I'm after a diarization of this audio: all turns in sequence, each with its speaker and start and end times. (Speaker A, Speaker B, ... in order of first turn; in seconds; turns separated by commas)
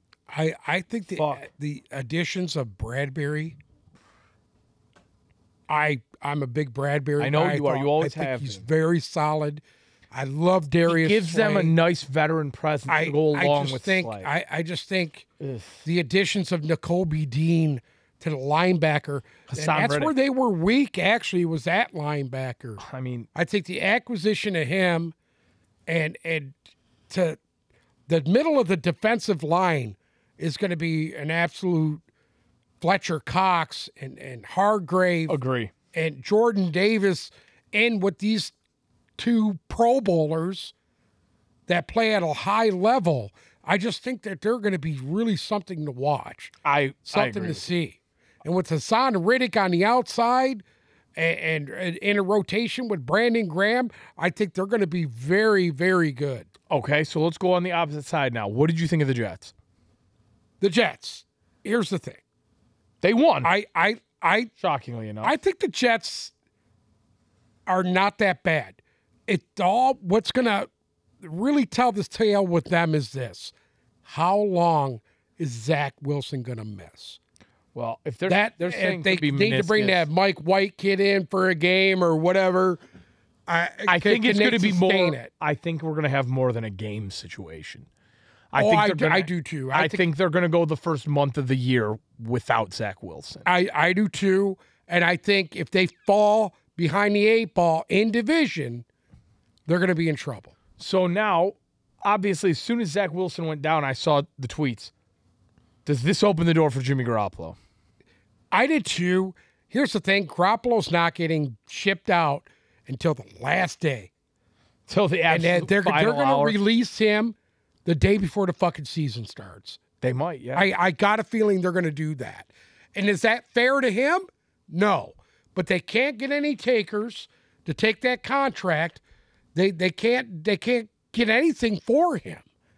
Speaker A: 0.3-3.6, Speaker B: 1.2-1.4, Speaker A: 5.7-11.8, Speaker B: 7.2-8.6, Speaker B: 10.9-14.3, Speaker A: 12.9-15.3, Speaker B: 15.4-15.8, Speaker A: 15.8-22.8, Speaker B: 19.5-20.1, Speaker B: 22.8-23.3, Speaker A: 23.3-25.1, Speaker A: 25.9-26.6, Speaker A: 27.1-27.4, Speaker A: 28.1-32.0, Speaker A: 32.8-35.3, Speaker B: 35.3-35.7, Speaker A: 35.9-38.5, Speaker A: 39.2-40.7, Speaker A: 41.7-46.5, Speaker B: 46.6-47.6, Speaker A: 47.1-50.6, Speaker A: 51.1-56.5, Speaker B: 56.7-59.5, Speaker A: 60.6-62.2, Speaker B: 63.0-63.5, Speaker A: 63.4-64.5, Speaker B: 64.6-65.3, Speaker A: 65.2-66.3, Speaker A: 67.7-70.7, Speaker A: 71.2-73.5, Speaker A: 74.0-77.2, Speaker B: 77.7-80.1, Speaker A: 78.3-82.8, Speaker A: 83.5-85.3, Speaker B: 83.9-87.9, Speaker B: 88.5-93.5, Speaker A: 88.5-90.0, Speaker A: 93.5-98.8, Speaker A: 99.7-100.5, Speaker B: 100.8-104.9, Speaker B: 105.8-107.6, Speaker A: 108.5-114.1, Speaker B: 114.9-116.5, Speaker A: 115.3-119.8, Speaker B: 120.0-120.7, Speaker A: 120.5-129.0, Speaker A: 129.5-132.4